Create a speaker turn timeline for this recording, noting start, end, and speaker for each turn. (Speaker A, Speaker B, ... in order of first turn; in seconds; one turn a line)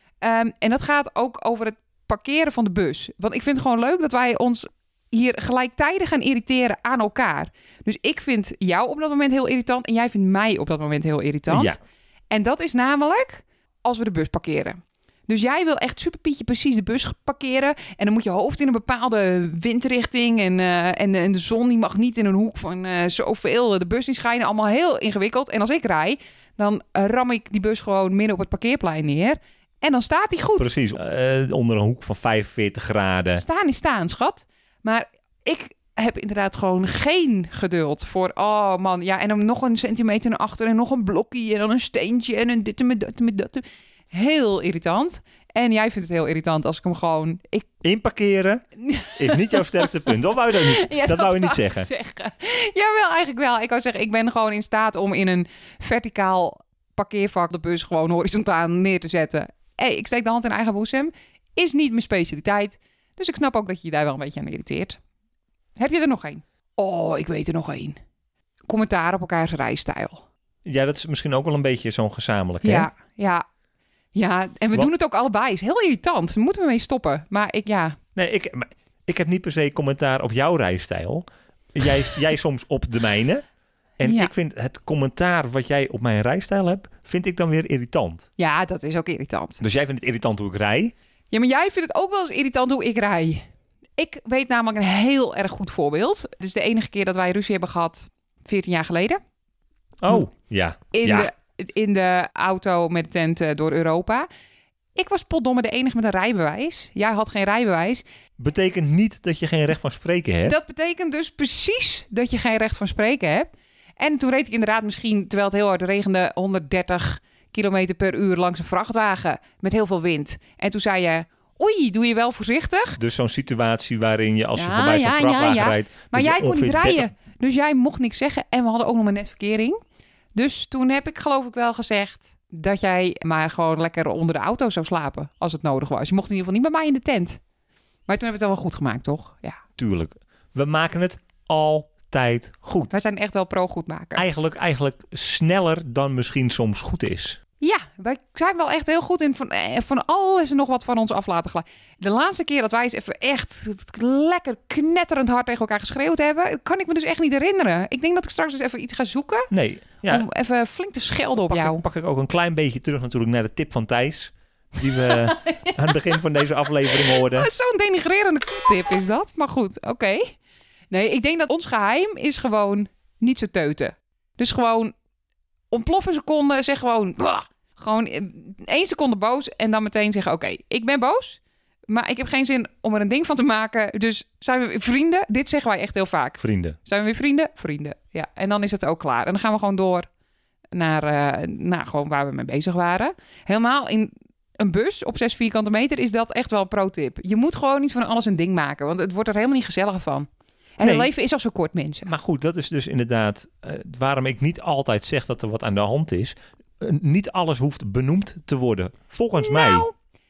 Speaker A: 0.2-11.8
Speaker B: 11.5-11.8
Speaker A: 12.3-30.7
Speaker B: 30.6-33.4
Speaker A: 33.4-47.7
Speaker B: 47.8-48.6
Speaker A: 48.8-65.0
Speaker B: 49.1-51.9
Speaker A: 65.8-68.0
Speaker A: 68.7-70.2
Speaker B: 70.6-72.9
Speaker A: 72.6-73.4
Speaker A: 74.1-78.0
Speaker B: 78.2-83.4
Speaker B: 84.0-88.2
Speaker A: 84.0-84.3
Speaker A: 88.4-89.6
Speaker B: 89.6-90.9
Speaker A: 91.3-93.4
Speaker A: 94.0-99.2
Speaker B: 100.0-101.3
Speaker A: 100.9-104.3
Speaker A: 105.0-108.0
Speaker B: 108.4-110.5
Speaker A: 110.5-123.0
Speaker B: 123.0-127.1
Speaker A: 124.5-129.8
Speaker A: 130.3-137.4
Speaker A: 138.1-139.6
Speaker B: 139.8-142.9
Speaker A: 142.9-144.2
Speaker B: 144.2-147.4
Speaker A: 147.6-159.5
Speaker B: 159.5-160.2
Speaker A: 160.1-161.8
Speaker B: 161.4-167.5
Speaker A: 164.9-165.9
Speaker A: 166.9-170.4
Speaker A: 170.9-174.9
Speaker A: 175.7-190.1
Speaker B: 186.4-186.8
Speaker A: 190.7-202.1
Speaker B: 200.8-201.1
Speaker B: 202.1-209.9
Speaker A: 209.4-209.9